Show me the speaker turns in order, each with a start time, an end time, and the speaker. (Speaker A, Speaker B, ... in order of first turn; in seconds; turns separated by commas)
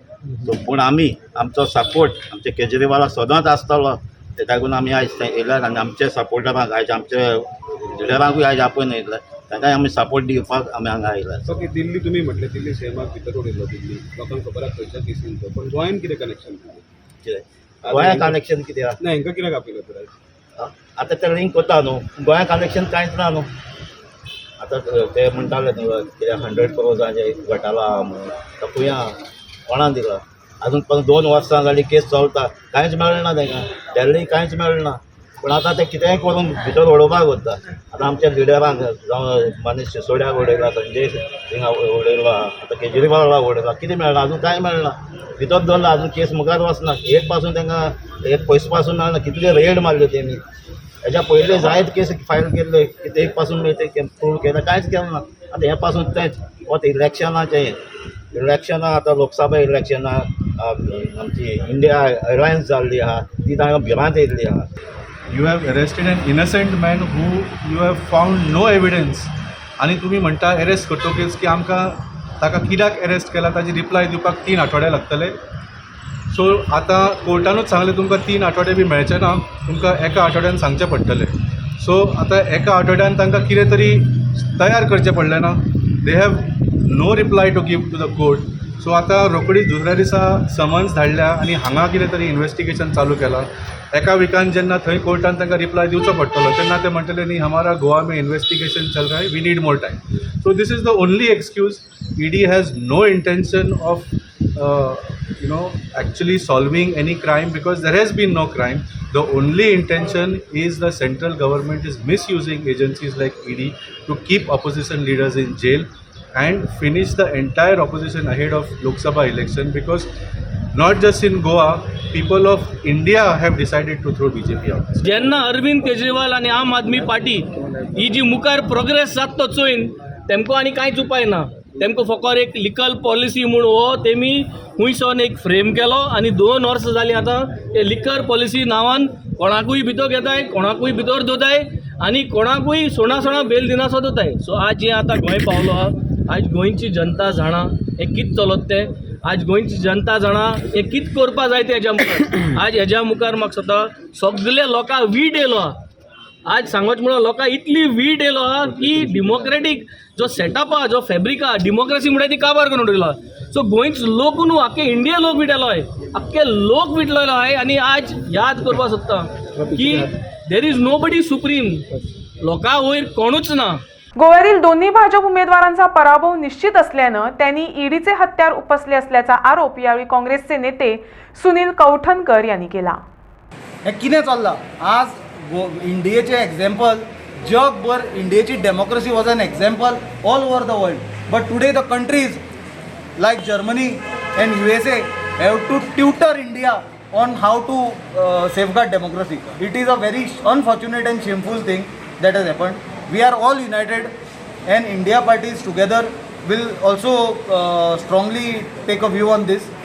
Speaker A: 0.4-11.5, Speaker B: 11.4-16.8, Speaker A: 17.2-19.0, Speaker B: 17.8-18.4, Speaker B: 19.0-20.1, Speaker A: 20.6-23.5, Speaker A: 24.6-50.4, Speaker A: 51.0-57.8, Speaker A: 58.3-64.7, Speaker C: 65.3-75.4, Speaker C: 76.3-120.1, Speaker C: 120.7-125.0, Speaker D: 125.0-155.8, Speaker D: 156.5-171.8, Speaker B: 169.7-170.1, Speaker D: 172.4-173.8, Speaker E: 174.2-183.0, Speaker F: 183.8-192.4, Speaker F: 193.2-204.1, Speaker F: 204.7-209.7